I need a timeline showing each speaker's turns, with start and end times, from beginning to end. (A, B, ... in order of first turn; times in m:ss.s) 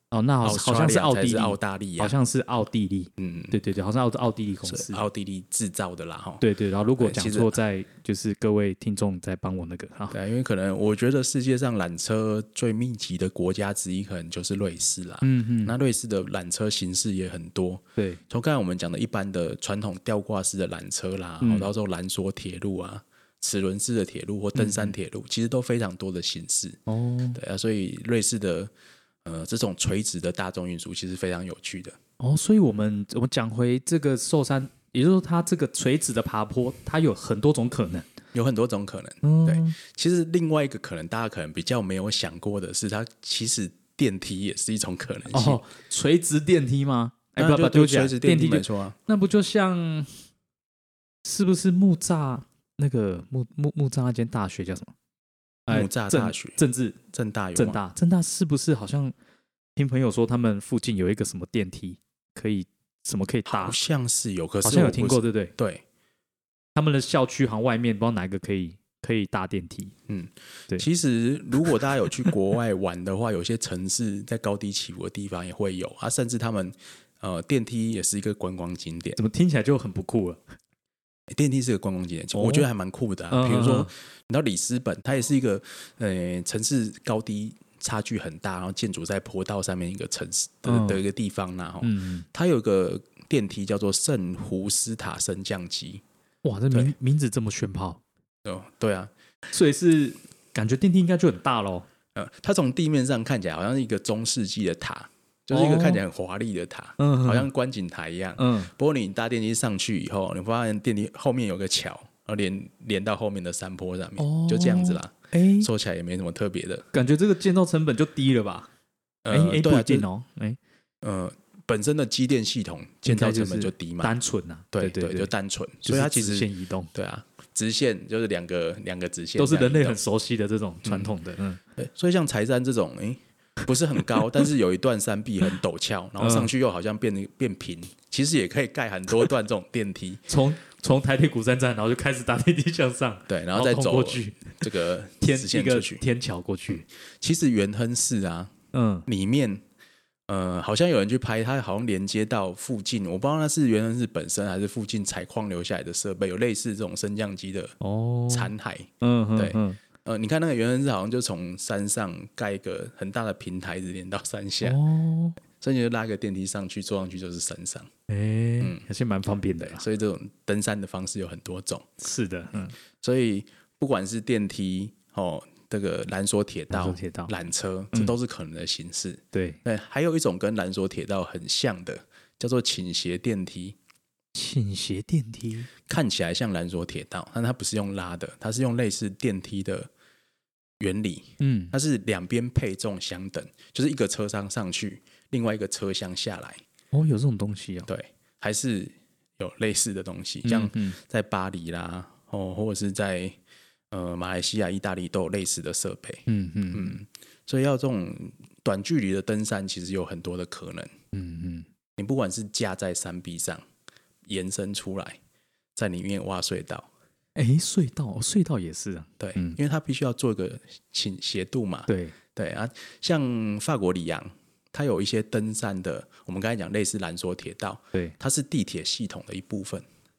0:00.1-0:05.0 A
0:00.4-0:02.1 B
0:03.2-0:03.6 B
0:04.6-0:06.4 B
0:06.4-0:10.2 A
0:07.0-0:07.6 B
0:10.1-0:26.8 B
0:15.2-0:15.7 A
0:21.4-0:21.7 A
0:24.5-0:24.9 A
0:26.9-0:27.4 A
0:27.3-0:28.7 B
0:29.2-0:32.0 B
0:32.2-0:38.1 A
0:38.3-0:45.6 B
0:39.2-0:39.8 A
0:45.3-0:50.1 A
0:47.4-0:49.0 B
0:51.2-0:54.9 A
0:55.7-0:57.0 A
0:55.7-0:56.6 B
0:57.1-0:57.8 B
0:57.6-0:59.1 A
0:59.8-1:03.8 A
1:03.5-1:05.8 B
1:04.6-1:05.5 A
1:06.7-1:09.9 A
1:10.1-1:19.2 B
1:11.6-1:12.3 A
1:19.2-1:20.4 A
1:21.3-1:36.0 B
1:22.3-1:22.7 A
1:23.3-1:23.9 A
1:30.6-1:31.0 A
1:31.8-1:32.2 A
1:36.4-1:38.0 A
1:38.4-1:39.1 B
1:39.5-1:41.9 A
1:42.1-1:56.9 B
1:45.5-1:46.0 A
1:47.0-1:47.5 A
1:48.4-1:48.7 A
1:54.2-1:55.7 A
1:56.9-1:58.7 A
1:59.2-2:00.1 B
1:59.3-2:00.6 A
2:01.0-2:04.1 B
2:03.0-2:05.3 A
2:04.7-2:10.0 B
2:05.8-2:06.9 A
2:09.4-2:11.6 A
2:10.8-2:11.1 B
2:11.8-2:20.3 B
2:16.2-2:16.5 A
2:20.3-2:24.6 A
2:23.3-2:26.0 B
2:25.2-2:26.8 A
2:26.7-2:28.5 B
2:28.7-2:29.1 A
2:29.0-2:29.6 B
2:30.3-2:37.8 B
2:37.8-2:39.8 A
2:38.3-2:44.8 B
2:44.6-2:45.4 A
2:45.6-2:47.9 B
2:48.1-2:49.8 A
2:49.6-2:52.0 B
2:52.0-2:52.7 A
2:53.0-3:03.8 B
2:56.7-2:57.3 A
2:59.3-2:59.6 A
3:04.3-3:05.7 A
3:05.9-3:09.9 B
3:10.8-3:16.6 B
3:11.4-3:11.7 A
3:16.9-3:17.9 A
3:17.8-3:23.4 B
3:20.4-3:21.0 A
3:23.9-3:30.9 B
3:26.3-3:27.0 A
3:31.1-3:31.7 A
3:32.0-3:33.6 B
3:34.3-3:35.2 B
3:35.8-3:36.9 B
3:37.4-3:39.6 A
3:39.2-3:49.8 B
3:41.9-3:42.2 A